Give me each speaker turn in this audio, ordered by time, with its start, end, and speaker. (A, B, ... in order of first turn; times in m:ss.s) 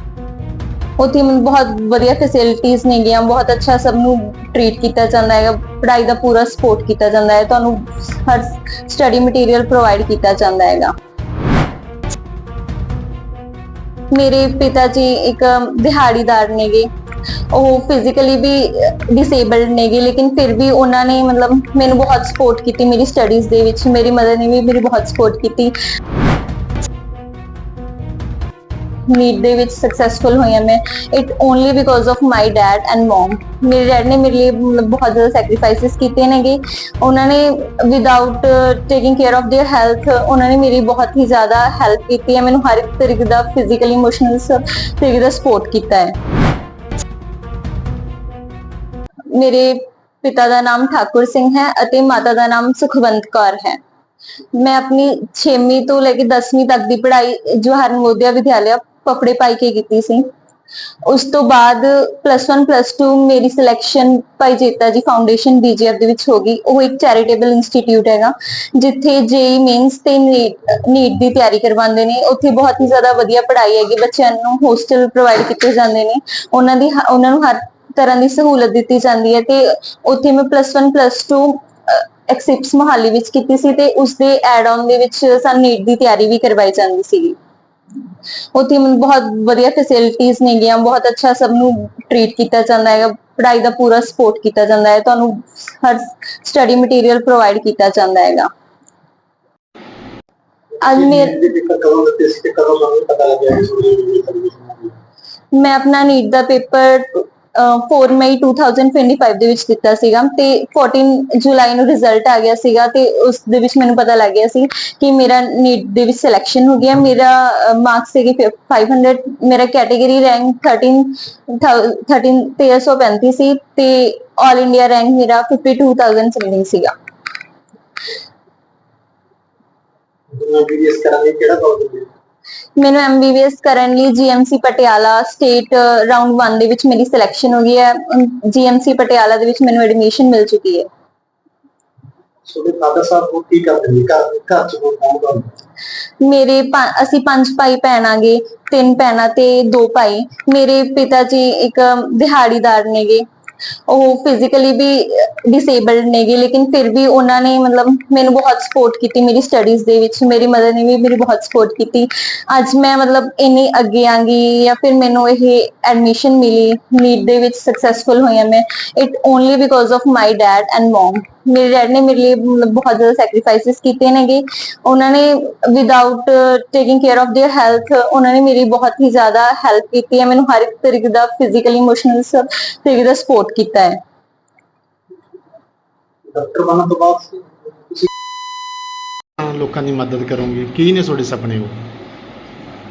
0:01.0-0:10.9 A
0:14.1-0:16.9 A
0:17.5-0:25.7 A
0:29.1-0:46.2 A
0:49.3-0:53.8 A
0:54.5-1:00.3 A
1:01.0-1:27.4 A
1:28.5-1:38.5 A
1:40.8-1:45.0 B
1:40.8-1:41.3 A
1:45.5-2:06.9 A
2:10.3-2:12.1 B
2:12.8-2:20.9 A
2:22.4-2:25.5 B
2:26.2-2:33.2 A
2:33.9-3:04.0 A
3:06.3-3:08.1 B
3:09.4-3:11.8 C